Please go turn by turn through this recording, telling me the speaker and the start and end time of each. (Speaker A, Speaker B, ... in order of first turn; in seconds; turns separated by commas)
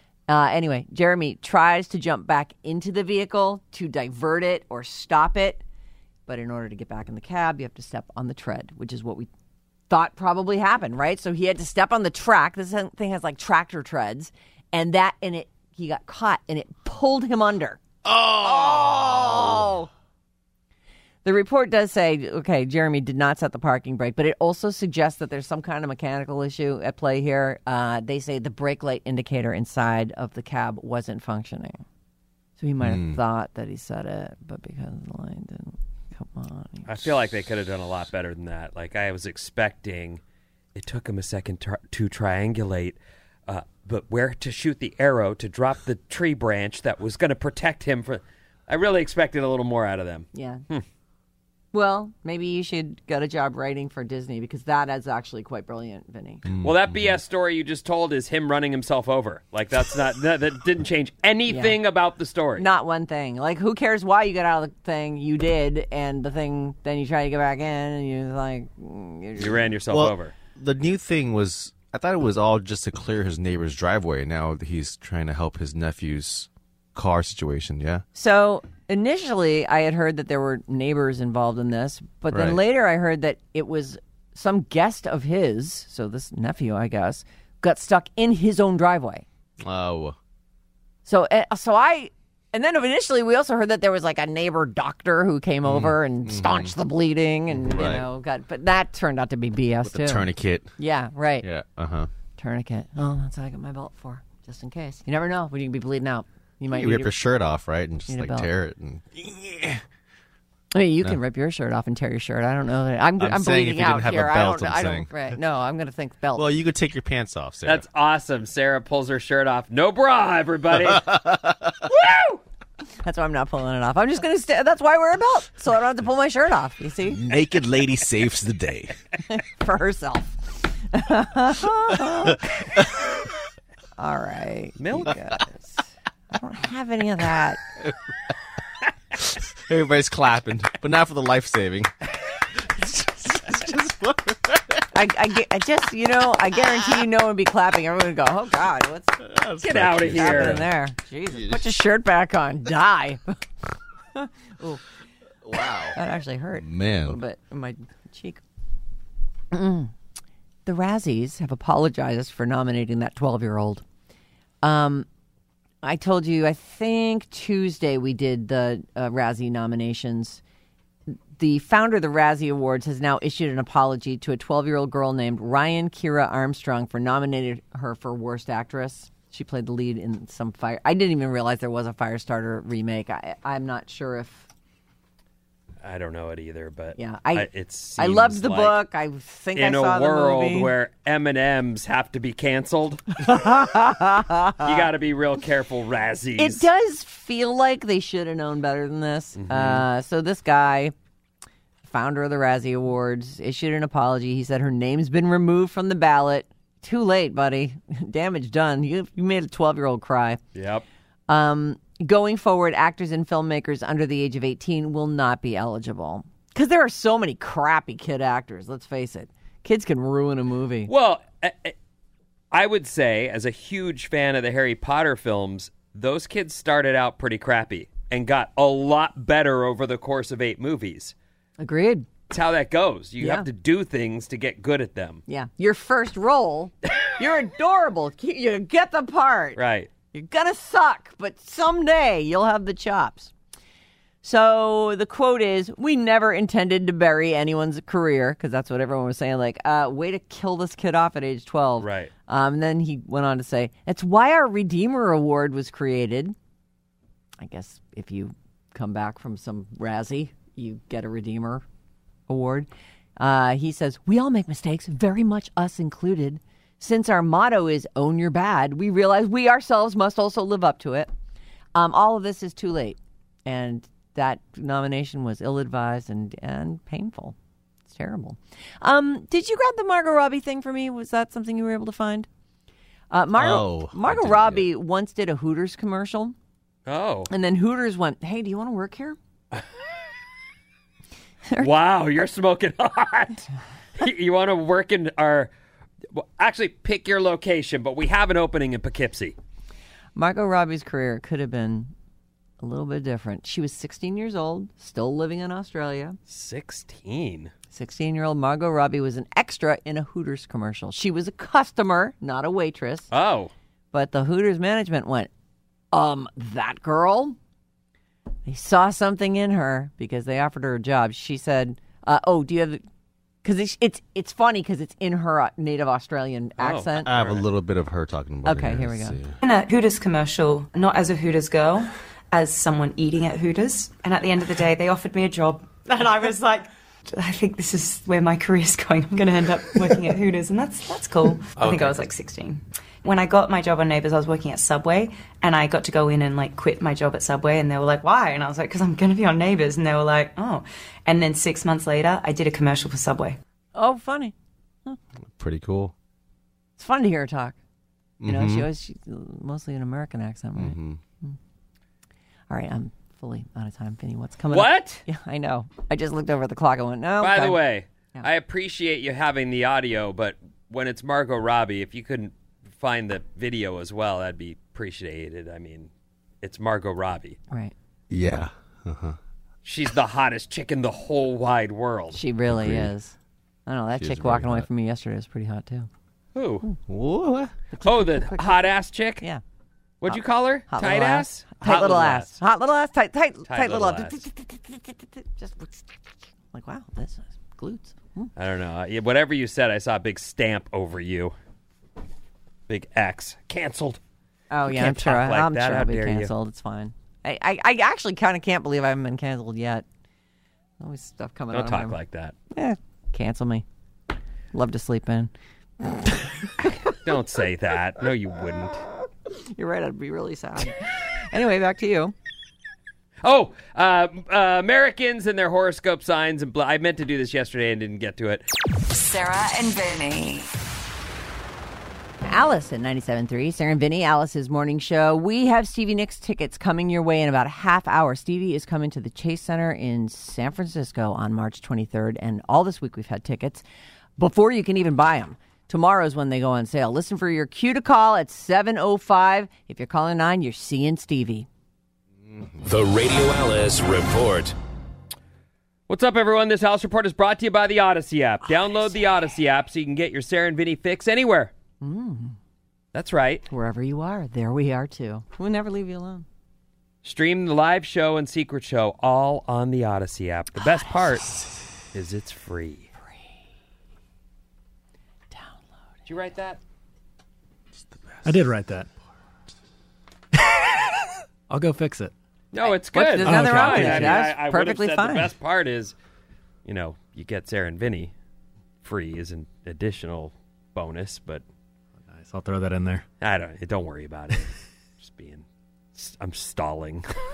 Speaker A: 0.3-5.6, Speaker A: 6.3-9.3, Speaker A: 9.9-19.9, Speaker B: 18.0-19.7, Speaker A: 21.2-31.8, Speaker A: 32.6-36.9, Speaker B: 32.8-33.2, Speaker C: 36.9-40.2, Speaker C: 40.7-50.8, Speaker A: 50.3-50.6, Speaker A: 51.7-56.4, Speaker B: 56.5-57.2, Speaker C: 56.6-62.6, Speaker A: 61.5-61.8, Speaker A: 62.6-69.7, Speaker C: 69.4-70.3, Speaker B: 69.9-78.0, Speaker A: 78.1-89.2, Speaker B: 82.3-82.6, Speaker B: 89.6-90.2, Speaker A: 91.0-101.5, Speaker B: 95.6-96.7, Speaker B: 97.5-98.0, Speaker B: 99.8-100.7, Speaker B: 101.4-102.1, Speaker A: 102.4-107.2, Speaker B: 106.7-109.8, Speaker A: 108.1-108.5, Speaker A: 110.7-116.6, Speaker B: 113.2-115.2, Speaker B: 116.3-117.8, Speaker C: 117.6-121.1, Speaker B: 120.8-121.7, Speaker A: 123.0-127.2, Speaker B: 127.1-129.0, Speaker A: 129.3-132.9, Speaker A: 134.0-135.8, Speaker C: 134.8-135.2, Speaker A: 136.3-137.6, Speaker B: 139.2-141.9, Speaker B: 143.3-144.8, Speaker A: 144.9-149.2, Speaker B: 149.2-150.7, Speaker C: 149.6-150.6, Speaker A: 150.1-153.4, Speaker B: 151.3-151.6, Speaker A: 154.1-154.8, Speaker B: 155.4-155.9, Speaker A: 155.6-158.4, Speaker B: 156.6-157.2, Speaker A: 159.5-159.9, Speaker A: 160.7-163.8, Speaker A: 164.6-165.1, Speaker A: 165.8-170.4, Speaker A: 171.1-184.5, Speaker C: 185.8-188.8, Speaker A: 186.9-190.7, Speaker C: 189.6-193.2, Speaker A: 193.2-194.8, Speaker C: 194.6-196.6, Speaker A: 196.4-200.9, Speaker C: 199.4-199.8, Speaker A: 201.8-210.4, Speaker C: 210.5-210.8, Speaker A: 211.3-220.9, Speaker C: 220.9-221.7, Speaker C: 222.5-231.1, Speaker A: 231.6-232.1, Speaker C: 232.3-235.2, Speaker A: 233.2-233.5, Speaker A: 235.3-239.6, Speaker C: 239.6-239.9, Speaker A: 240.1-243.3, Speaker A: 244.2-256.3, Speaker C: 251.8-252.1, Speaker A: 257.4-261.6, Speaker A: 262.3-271.1, Speaker A: 271.7-277.3, Speaker A: 277.9-282.3, Speaker A: 283.1-286.3, Speaker B: 283.3-284.7, Speaker C: 286.9-287.3, Speaker A: 287.3-289.2, Speaker C: 291.6-295.5, Speaker C: 296.1-299.4, Speaker A: 300.1-301.9, Speaker A: 302.6-306.2, Speaker C: 306.3-307.5, Speaker A: 307.7-313.1, Speaker C: 313.1-313.5, Speaker A: 313.9-315.3, Speaker A: 315.9-317.4, Speaker A: 318.4-322.8, Speaker A: 323.4-327.1, Speaker C: 326.6-327.4, Speaker B: 327.1-329.3, Speaker A: 328.4-329.2, Speaker D: 329.4-353.4, Speaker E: 341.6-342.0, Speaker A: 353.7-354.3, Speaker B: 355.3-355.9, Speaker A: 356.8-357.6, Speaker B: 358.2-358.7, Speaker A: 358.2-361.4, Speaker B: 360.6-361.0, Speaker A: 362.5-367.6, Speaker C: 364.5-365.0, Speaker C: 367.2-375.9, Speaker C: 376.4-377.4, Speaker B: 378.1-379.2, Speaker C: 379.6-382.2, Speaker A: 382.1-385.9, Speaker B: 382.5-382.9, Speaker B: 383.9-384.7, Speaker C: 386.3-386.6, Speaker B: 386.9-387.5, Speaker A: 387.7-389.4, Speaker C: 387.8-389.2, Speaker C: 390.0-392.4, Speaker A: 390.1-396.0, Speaker C: 393.5-394.2, Speaker A: 396.5-398.3, Speaker C: 398.4-401.3, Speaker C: 402.7-404.0, Speaker A: 404.5-409.8, Speaker C: 404.7-406.3, Speaker A: 410.8-412.0, Speaker C: 411.5-412.3, Speaker A: 412.5-413.6, Speaker A: 414.5-416.7, Speaker C: 416.9-418.8, Speaker A: 419.3-422.1, Speaker C: 423.2-428.4, Speaker D: 428.8-430.5, Speaker A: 432.2-443.6, Speaker A: 444.2-451.5, Speaker B: 452.2-452.6, Speaker E: 452.6-454.5, Speaker C: 455.9-461.5, Speaker A: 461.8-462.4, Speaker C: 462.9-463.4, Speaker A: 463.5-466.2, Speaker C: 467.0-471.3, Speaker C: 471.9-472.9, Speaker A: 475.3-475.6, Speaker C: 476.1-476.6, Speaker F: 478.2-478.9, Speaker F: 481.5-482.1, Speaker C: 482.5-485.9, Speaker A: 482.6-485.3, Speaker F: 483.2-484.2, Speaker C: 486.6-488.1, Speaker C: 488.8-491.4, Speaker F: 492.1-493.0, Speaker C: 493.2-495.4, Speaker C: 495.9-497.1